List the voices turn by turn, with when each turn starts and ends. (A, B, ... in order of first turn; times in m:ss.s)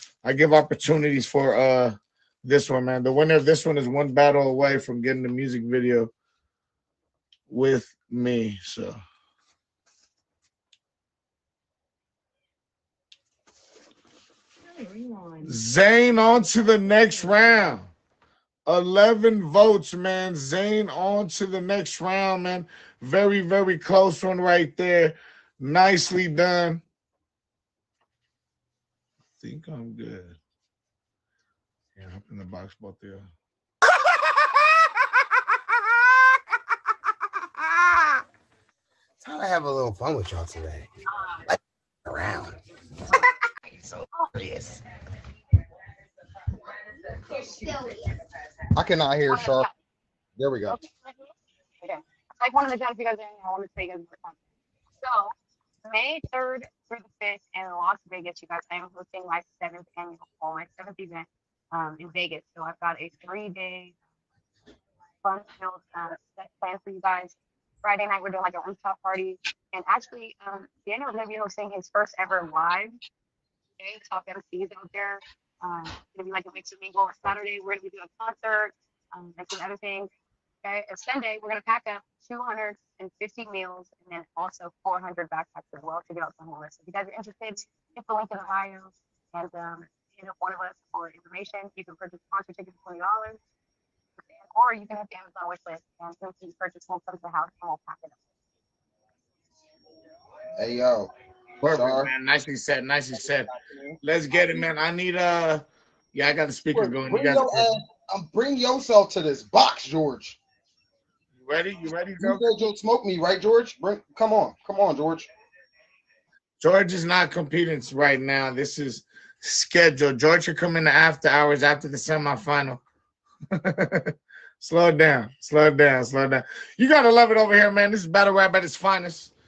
0:00.2-0:06.1 A
0:07.5-0:09.0 A
0:14.8-0:15.3 B
0:15.4-0:17.9 A
0:18.7-0:26.8 A
0:29.4-0:30.4 A
0:32.0-0:33.3 A
0:39.2-0:40.9 C
0:41.5-0:42.6 C
0:43.8-0:44.8 C
0:48.7-0:49.7 C
0:49.3-0:49.7 B
0:50.4-0:50.8 C
0:50.7-0:54.4 B
0:55.0-0:55.3 B
0:55.8-1:04.0 B
1:05.2-1:12.9 B
1:13.8-1:20.1 B
1:20.6-1:33.4 B
1:34.3-1:38.2 B
1:40.6-1:41.1 C
1:41.6-1:43.5 A
1:41.7-1:42.1 C
1:44.0-1:47.7 A
1:46.7-1:50.4 C
1:51.4-1:52.5 A
1:52.2-1:55.3 C
1:56.6-2:02.8 A
2:03.5-2:09.3 A